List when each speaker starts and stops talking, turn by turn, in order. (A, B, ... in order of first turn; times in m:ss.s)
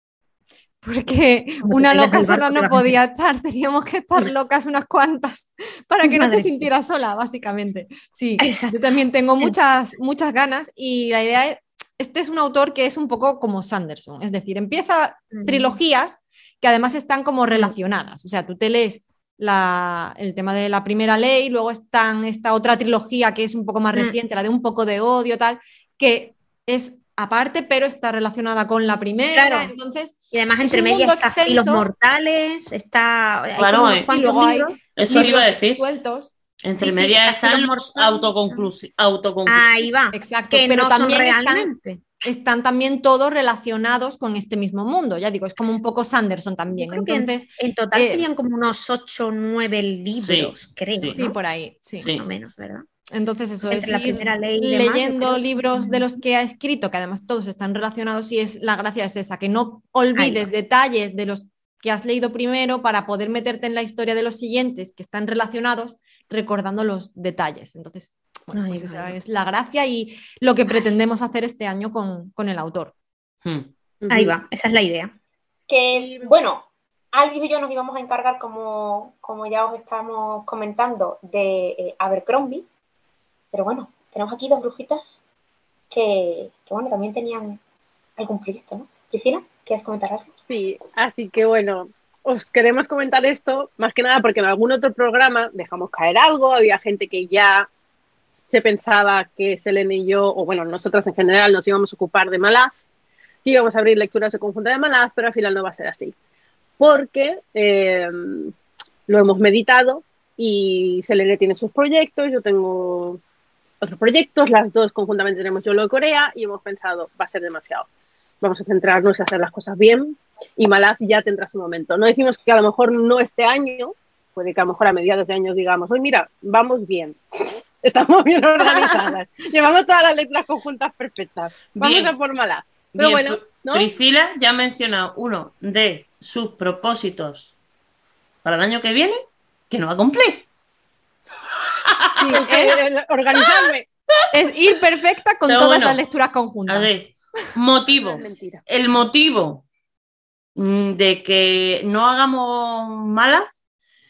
0:00.8-0:31.9 A
0:01.6-0:03.0 B
0:06.0-0:06.7 B
0:08.4-0:09.6 B
0:15.3-0:15.8 B
0:29.3-0:29.7 B
0:30.3-0:35.4 B
0:33.6-0:34.1 C
0:33.6-0:36.3 A
0:35.0-0:35.8 C
0:36.6-0:39.7 C
0:36.8-0:38.7 B
0:39.5-0:42.1 B
0:40.1-0:41.7 A
0:42.2-0:48.3 A
0:46.7-0:51.3 B
0:50.2-0:51.2 C
0:51.1-0:52.1 A
0:52.0-0:52.2 C
0:52.1-0:52.8 B
0:53.1-1:12.9 A
0:53.6-0:56.1 B
1:00.2-1:00.5 B
1:08.5-1:09.2 B
1:13.4-1:13.7 C
1:14.0-1:14.4 D
1:14.1-1:15.1 B
1:15.7-1:22.6 E
1:15.9-1:16.3 D
1:23.5-1:25.2 E
1:25.9-1:27.6 E
1:28.2-1:30.3 E
1:30.5-1:37.7 D
1:38.5-1:42.7 D
1:43.4-1:46.2 D
1:46.8-1:48.5 D
1:49.1-1:53.2 D
1:53.8-1:57.9 D
1:58.4-2:13.9 D
2:11.7-2:12.1 C
2:13.0-2:17.5 C
2:18.4-2:20.5 C
2:21.8-2:22.5 C
2:22.2-2:23.9 D
2:22.3-2:22.8 A
2:23.4-2:23.7 C
2:24.3-2:26.9 A
2:25.5-2:26.0 C
2:26.7-2:29.6 C
2:27.9-2:28.6 D
2:30.6-2:33.5 C